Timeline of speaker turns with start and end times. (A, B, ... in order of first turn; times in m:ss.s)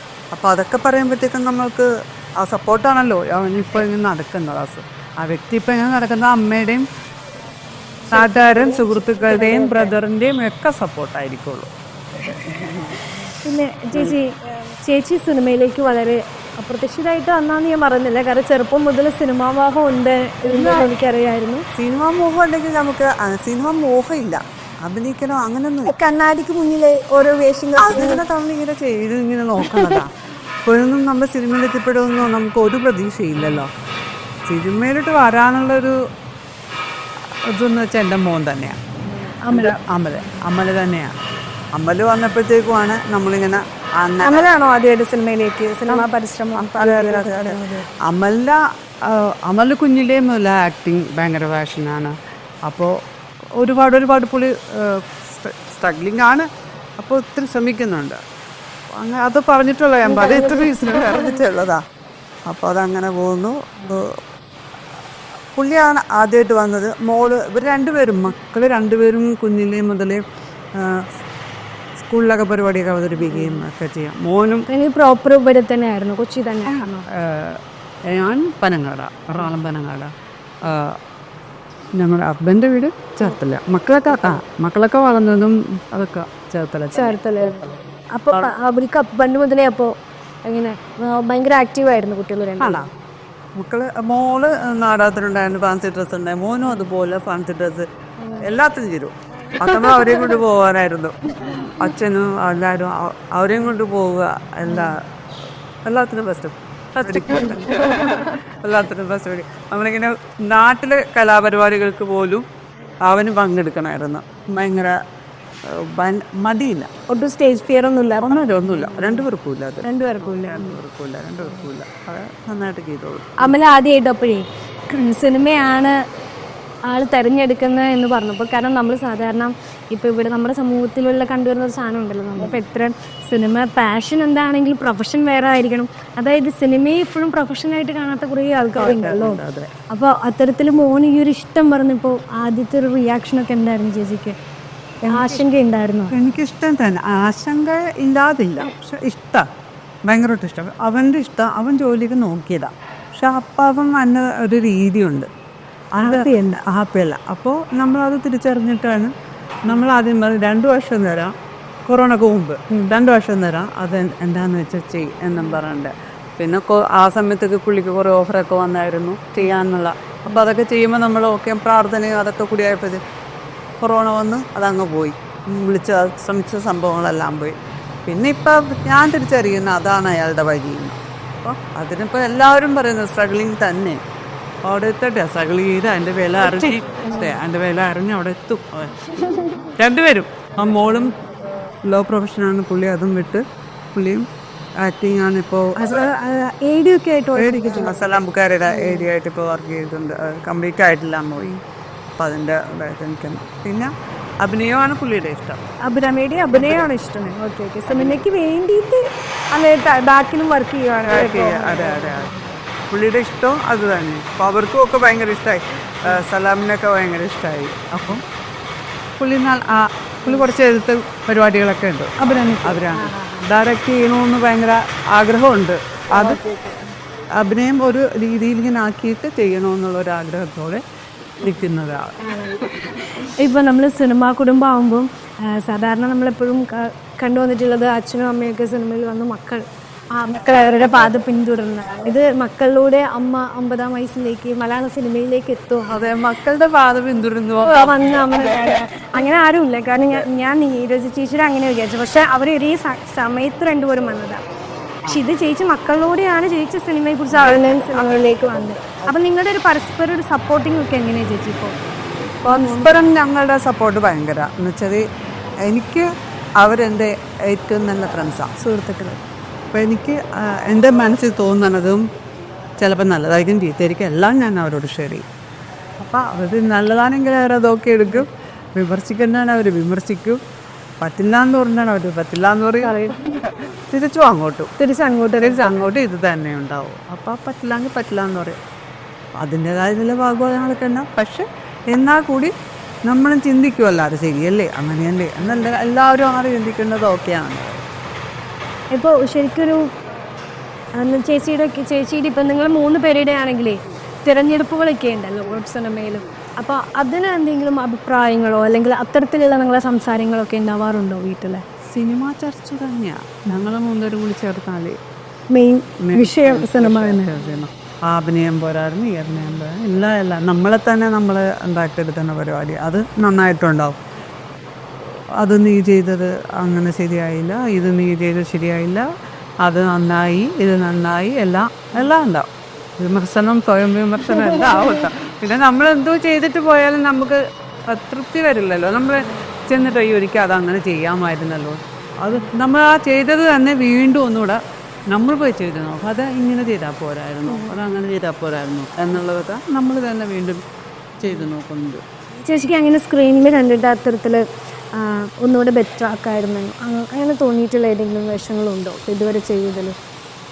0:00.3-0:06.8 A
0:08.1-0:13.0 A
0:08.1-0:09.9 B
0:13.4-0:21.6 B
0:20.5-0:20.8 A
0:21.7-0:25.9 A
0:25.8-0:28.2 B
0:27.8-0:30.1 A
0:29.6-0:30.0 B
0:30.6-0:33.7 A
0:34.4-0:36.0 A
0:37.3-0:38.8 A
0:39.2-0:39.8 B
0:39.5-0:41.1 A
0:41.7-0:44.5 A
0:44.2-0:47.8 B
0:45.9-0:52.1 A
0:52.6-0:52.9 A
0:53.6-0:56.5 A
0:57.0-0:58.2 A
0:58.9-1:01.8 A
1:00.0-1:01.3 B
1:02.5-1:04.2 A
1:05.5-1:10.2 A
1:10.7-1:11.1 A
1:12.0-1:14.7 A
1:13.3-1:13.6 B
1:14.7-1:17.1 B
1:16.7-1:21.0 A
1:22.0-1:27.7 A
1:26.9-1:27.6 B
1:28.1-1:32.9 B
1:32.6-1:32.9 A
1:33.6-1:37.9 A
1:38.4-1:45.0 A
1:39.6-1:40.3 B
1:44.7-1:44.9 B
1:45.8-1:52.4 A
1:47.1-1:47.9 B
1:53.0-1:55.0 A
1:55.6-1:56.9 A
1:57.1-1:59.2 B
1:58.2-2:03.5 A
1:59.8-2:00.8 B
2:03.4-2:06.0 B
2:06.9-2:24.4 B
2:18.8-2:19.7 A
2:25.0-2:26.2 B
2:25.1-2:25.4 A
2:26.1-2:29.4 A
2:30.1-2:35.3 A
2:35.9-2:39.1 A
2:36.0-2:36.4 B
2:39.6-2:41.3 A
2:41.9-2:53.0 A
2:53.8-2:57.5 A
2:58.0-3:04.0 A
3:04.6-3:09.1 A
3:06.5-3:07.3 B
3:09.2-3:09.7 B
3:09.7-3:11.1 A
3:11.8-3:14.2 A
3:14.8-3:16.0 A
3:15.8-3:18.0 B
3:17.3-3:21.6 A
3:18.7-3:19.0 B
3:22.2-3:23.9 A
3:24.4-3:25.6 A
3:25.8-3:32.3 B
3:26.6-3:26.8 A
3:31.1-3:32.3 A
3:32.9-3:38.2 A
3:39.2-3:46.4 A
3:42.2-3:43.5 B
3:46.1-3:46.8 B
3:47.3-3:50.8 A
3:51.4-3:53.0 A
3:52.2-4:06.0 B
4:05.9-4:08.8 A
4:07.6-4:14.4 B
4:15.0-4:21.7 B
4:17.3-4:17.6 A
4:22.4-4:22.9 B
4:22.4-4:25.0 A
4:25.6-4:28.5 A
4:28.6-4:29.2 B
4:29.7-4:32.0 A
4:32.8-4:35.2 A
4:36.0-4:40.4 A
4:41.0-4:44.7 A
4:42.8-4:43.2 B
4:44.8-4:45.9 B
4:45.4-4:48.6 A
4:49.4-4:52.5 A
4:53.0-4:57.8 A
4:58.9-4:59.8 B
5:01.0-5:11.6 B
5:11.8-5:15.0 A
5:15.5-5:17.4 B
5:16.0-5:24.0 A
5:25.4-5:29.1 A
5:29.6-5:44.6 A
5:45.1-5:50.6 A
5:47.5-5:47.8 B
5:51.2-5:52.0 A
5:52.4-6:00.0 B